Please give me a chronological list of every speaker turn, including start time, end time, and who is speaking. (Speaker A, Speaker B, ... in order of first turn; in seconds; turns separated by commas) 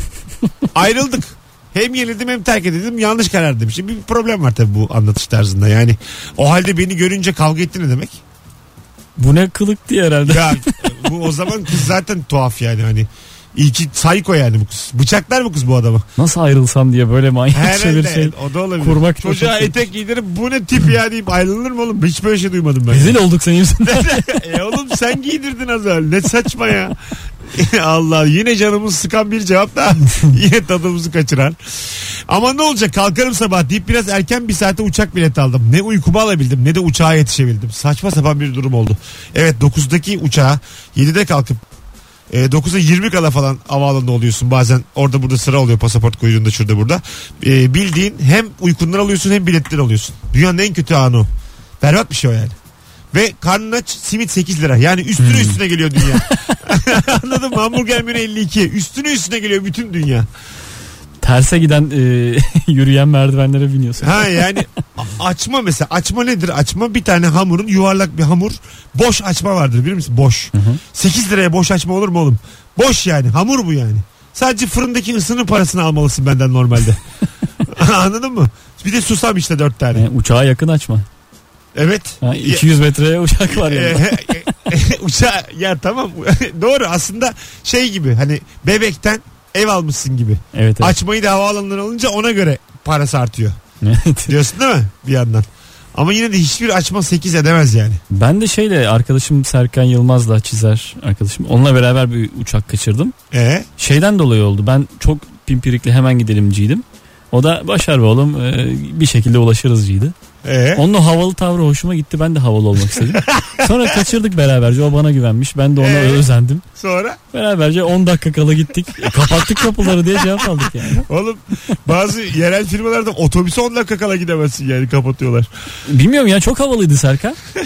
Speaker A: 0.7-8.2, Speaker B: 9.2-10.7, Speaker A: 10.2-16.1, Speaker B: 16.2-19.8, Speaker A: 17.5-23.2, Speaker B: 22.9-24.2, Speaker A: 23.8-41.6, Speaker A: 42.3-51.3, Speaker A: 51.8-52.6, Speaker A: 53.1-60.3, Speaker B: 55.2-56.5, Speaker B: 61.2-64.6, Speaker A: 64.0-77.0, Speaker B: 70.5-70.8, Speaker A: 77.7-80.1, Speaker B: 80.0-81.1, Speaker A: 81.8-82.7, Speaker B: 82.2-84.3, Speaker A: 83.5-93.6, Speaker B: 90.5-91.0, Speaker B: 93.8-94.3, Speaker A: 94.3-98.0, Speaker B: 98.1-103.1, Speaker A: 103.3-103.7, Speaker B: 103.8-110.2, Speaker A: 110.4-110.8, Speaker B: 110.8-116.6, Speaker A: 113.1-114.0, Speaker A: 115.8-116.2, Speaker A: 116.8-117.2, Speaker B: 117.3-121.0, Speaker A: 120.7-125.5, Speaker B: 125.9-127.4